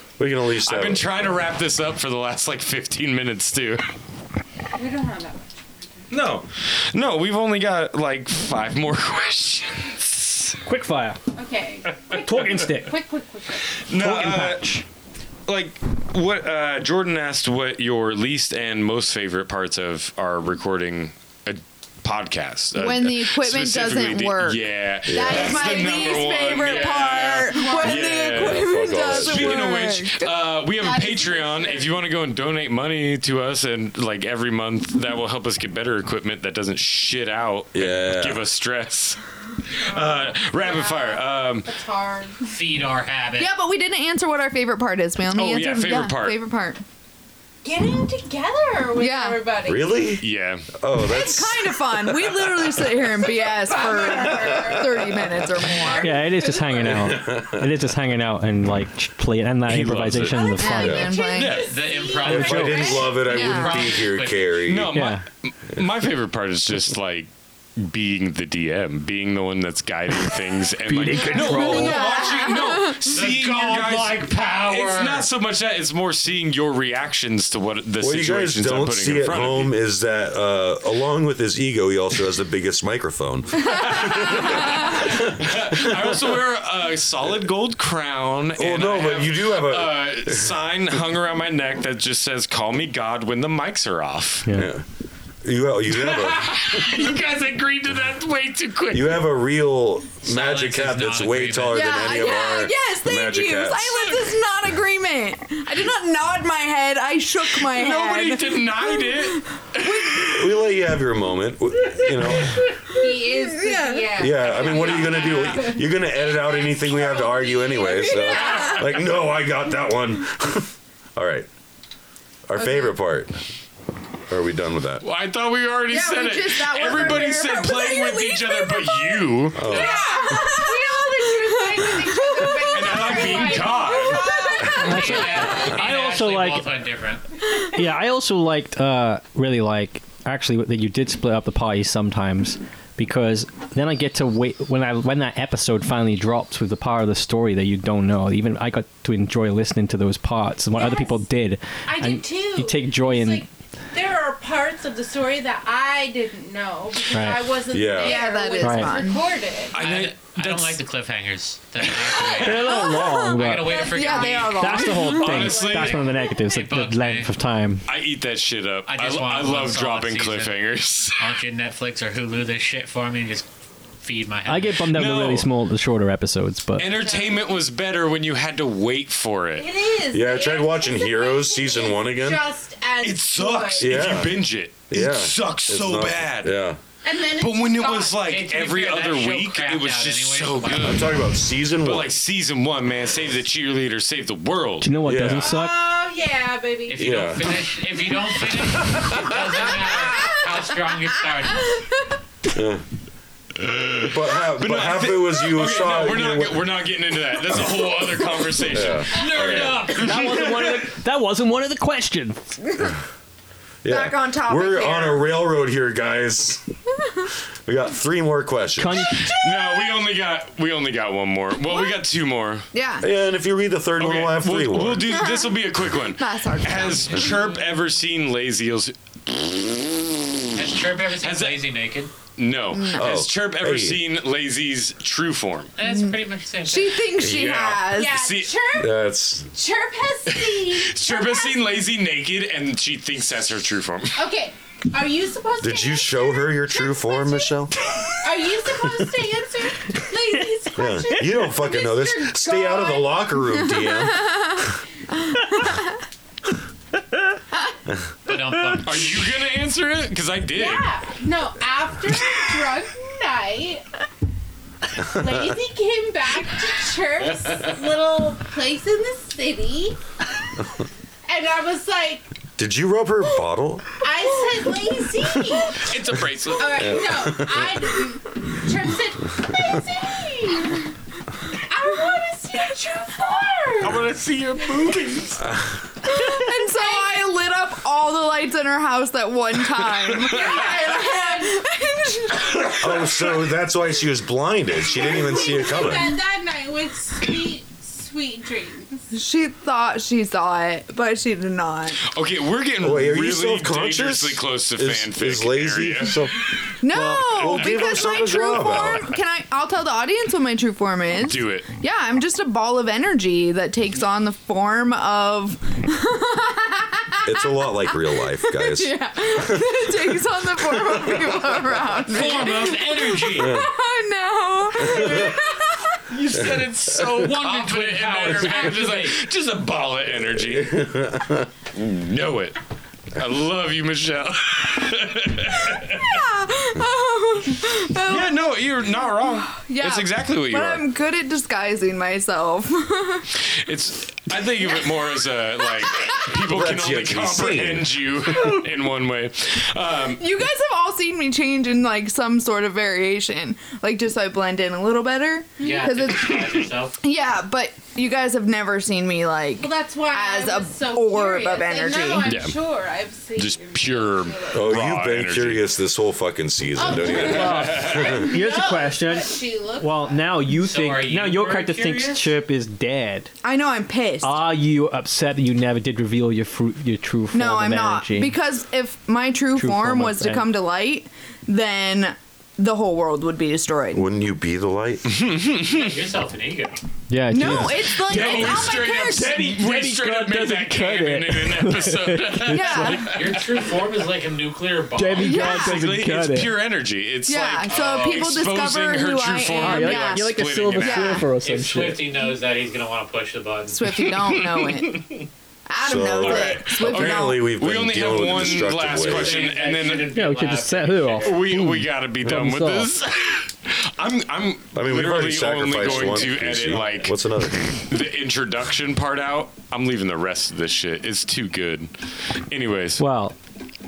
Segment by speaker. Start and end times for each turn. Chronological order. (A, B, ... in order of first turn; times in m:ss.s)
0:00.2-0:01.4 A
0:00.6-0:03.9 B
0:04.8-0:06.0 C
0:06.1-0:10.6 B
0:10.6-0:11.2 D
0:11.4-0:13.7 C
0:12.1-0:12.4 B
0:12.1-0:13.0 D
0:13.8-0:14.8 B
0:13.9-0:14.8 D
0:15.5-0:39.2 B
0:22.8-0:30.4 E
0:25.1-0:25.8 A
0:26.7-0:28.2 C
0:28.2-0:29.7 A
0:30.7-0:31.9 C
0:37.7-0:38.4 A
0:39.8-0:41.7 B
0:39.8-0:42.5 C
0:42.5-0:43.5 F
0:43.4-0:46.8 E
0:45.3-0:46.4 B
0:47.6-0:50.1 C
0:49.0-0:49.4 E
0:49.6-0:52.5 A
0:50.2-0:50.7 B
0:50.9-0:56.2 E
0:53.2-0:57.0 C
0:54.3-0:54.9 A
0:56.0-1:01.1 D
0:56.8-0:57.8 A
0:59.7-1:00.5 B
1:00.2-1:03.2 C
1:00.5-1:01.7 E
1:00.8-1:01.1 A
1:01.3-1:01.7 B
1:01.6-1:04.6 F
1:02.2-1:05.0 A
1:03.2-1:03.9 E
1:04.7-1:19.8 B
1:04.9-1:05.2 D
1:10.8-1:12.1 D
1:11.3-1:13.0 E
1:11.8-1:12.5 C
1:13.1-1:15.3 F
1:18.0-1:26.3 A
1:23.7-1:34.5 B
1:28.6-1:30.6 A
1:34.5-1:34.7 D
1:34.5-1:34.8 A
1:35.4-1:36.7 A
1:35.9-1:39.2 B
1:38.9-1:44.1 A
1:40.2-1:42.1 F
1:41.7-1:50.4 E
1:47.4-1:50.3 B
1:50.2-1:52.7 A
1:52.7-1:59.0 C
1:53.0-1:54.1 E
1:54.2-2:01.5 A
2:02.5-2:03.4 A
2:02.6-2:02.9 E
2:04.3-2:05.0 A
2:05.0-2:09.9 B
2:05.9-2:09.0 E
2:09.6-2:10.4 A
2:09.6-2:15.5 C
2:09.7-2:15.5 E
2:12.7-2:14.3 B
2:14.7-2:16.7 D
2:14.7-2:17.2 F
2:17.7-2:33.5 D
2:30.8-2:31.2 C
2:31.9-2:39.8 C
2:37.1-2:37.6 D
2:37.7-2:38.2 A
2:38.0-2:39.3 E
2:38.6-2:39.0 D
2:39.7-2:40.8 B
2:39.7-2:44.9 F
2:41.9-2:42.5 B
2:42.4-2:43.8 D
2:42.7-2:43.0 C
2:42.7-2:45.5 E
2:43.5-2:46.3 C
2:44.5-2:47.8 D
2:45.1-2:46.0 B
2:45.8-2:47.3 F
2:47.9-2:51.3 B
2:48.9-2:50.6 F
2:51.2-2:53.5 F
2:54.0-2:54.8 F
2:54.5-2:56.9 D
2:54.9-2:55.5 B
2:56.8-2:59.7 B
2:56.8-2:57.6 C
2:59.6-3:04.1 C
3:00.1-3:02.5 A
3:03.0-3:06.6 B
3:03.8-3:06.8 A
3:07.0-3:08.3 C
3:07.3-3:11.1 B
3:08.2-3:11.0 F
3:10.7-3:12.2 A
3:11.8-3:15.0 B
3:14.8-3:15.8 D
3:15.0-3:15.5 A
3:15.4-3:17.4 C
3:16.9-3:21.8 F
3:17.0-3:17.7 A
3:19.0-3:19.4 A
3:22.5-3:22.8 A
3:23.6-3:30.9 B
3:24.1-3:26.7 A
3:28.7-3:29.9 A
3:29.1-3:30.5 F
3:29.9-3:32.4 D
3:33.8-3:36.6 A
3:33.9-3:35.3 E
3:37.7-3:39.1 A
3:38.8-3:39.3 D
3:39.1-3:42.7 B
3:39.7-3:40.0 C
3:41.7-3:42.0 E
3:42.7-3:43.1 E
3:43.0-3:45.2 A
3:44.0-3:50.7 B
3:45.2-3:45.6 E
3:46.1-3:47.6 E
3:50.6-3:52.1 F
3:51.2-3:51.7 B
3:52.4-3:55.7 B
3:52.7-3:53.2 E
3:52.9-3:54.0 A
3:55.8-3:57.1 F
3:55.8-3:58.2 E
3:57.2-3:58.6 B
3:57.9-4:01.7 C
3:58.8-3:59.5 A
4:00.3-4:04.2 B
4:04.2-4:07.6 C
4:05.6-4:07.8 A
4:08.2-4:13.3 C
4:08.7-4:09.1 A
4:10.8-4:14.7 A
4:13.7-4:15.9 E
4:18.3-4:19.2 F
4:18.8-4:20.9 B
4:20.5-4:23.8 C
4:25.0-4:30.0 C
4:25.2-4:25.5 A
4:31.3-4:32.3 C
4:32.6-4:33.9 A
4:34.0-4:35.9 C
4:35.8-4:37.1 B
4:36.5-4:40.9 C
4:36.8-4:37.9 A
4:41.6-4:44.1 C
4:43.8-4:45.5 B
4:45.4-4:45.8 A
4:46.0-4:53.1 E
4:46.7-4:47.2 C
4:50.0-4:50.6 B
4:50.2-4:51.6 C
4:52.8-4:56.1 A
4:54.8-4:59.1 C
4:59.1-5:02.0 E
5:02.0-5:06.2 B
5:02.8-5:06.4 A
5:06.8-5:26.0 E
5:06.9-5:07.2 D
5:07.1-5:09.1 A
5:07.4-5:08.8 B
5:11.1-5:11.7 B
5:17.3-5:21.9 A
5:22.1-5:23.6 F
5:22.1-5:23.0 B
5:23.4-5:23.7 A
5:24.8-5:25.4 A
5:26.1-5:30.8 B
5:26.3-5:27.3 A
5:27.1-5:29.3 F
5:30.3-5:31.5 A
5:31.7-5:32.6 B
5:33.1-5:36.2 B
5:35.8-5:43.3 E
5:38.1-5:40.8 B
5:43.4-5:50.3 B
5:46.3-5:48.2 A
5:50.1-6:02.3 E
5:55.6-5:57.0 F
5:59.6-6:04.8 C
6:02.2-6:02.6 B
6:03.4-6:05.8 B
6:04.5-6:08.3 A
6:06.7-6:10.4 C
6:07.0-6:13.3 D
6:07.2-6:08.0 B
6:10.5-6:12.4 F
6:13.4-6:14.5 E
6:14.2-6:18.4 D
6:17.3-6:24.0 E
6:19.6-6:20.5 D
6:23.9-6:25.2 A
6:25.1-6:25.9 B
6:25.6-6:26.8 F
6:27.1-6:33.2 D
6:27.3-6:29.4 E
6:27.4-6:27.7 A
6:27.8-6:33.4 B
6:32.5-6:33.1 E
6:32.9-6:35.5 F
6:35.0-6:36.6 D
6:35.2-6:35.9 E
6:35.3-6:41.3 B
6:37.3-6:41.3 E
6:37.7-6:38.4 F
6:39.6-6:42.1 D
6:41.4-6:43.8 F
6:43.7-6:47.5 E
6:43.9-6:45.3 B
6:45.8-6:49.4 A
6:45.9-6:50.2 B
6:48.3-6:51.5 F
6:50.0-6:52.9 D
6:51.2-7:03.0 B
6:54.7-6:57.8 A
7:03.0-7:03.4 D